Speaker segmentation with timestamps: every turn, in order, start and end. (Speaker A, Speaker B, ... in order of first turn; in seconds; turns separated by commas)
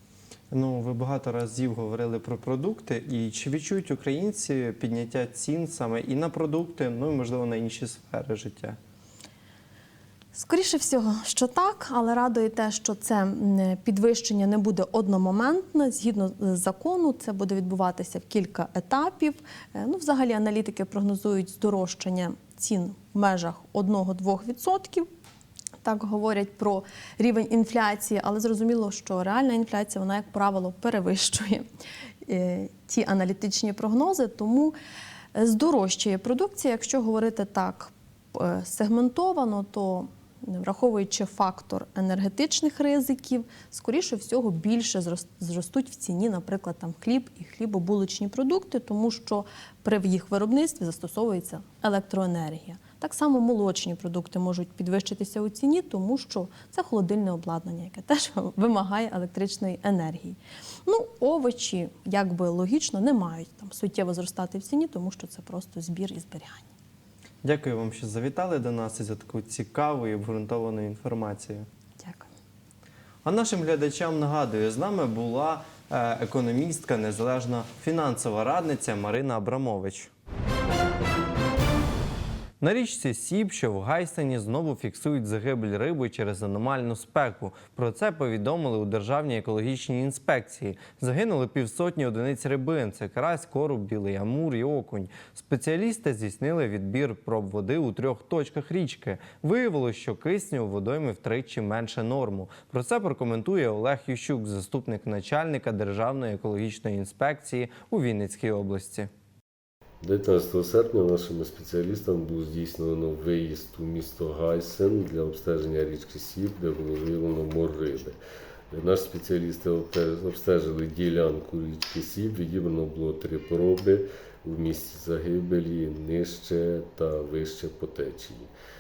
Speaker A: 0.5-8.8, Speaker B: 10.3-25.1, Speaker B: 25.8-31.6, Speaker B: 32.3-34.8, Speaker B: 35.4-66.7, Speaker A: 67.4-71.7, Speaker B: 72.0-72.3, Speaker A: 73.2-80.1, Speaker A: 82.6-109.1, Speaker C: 110.0-118.2, Speaker C: 118.7-128.5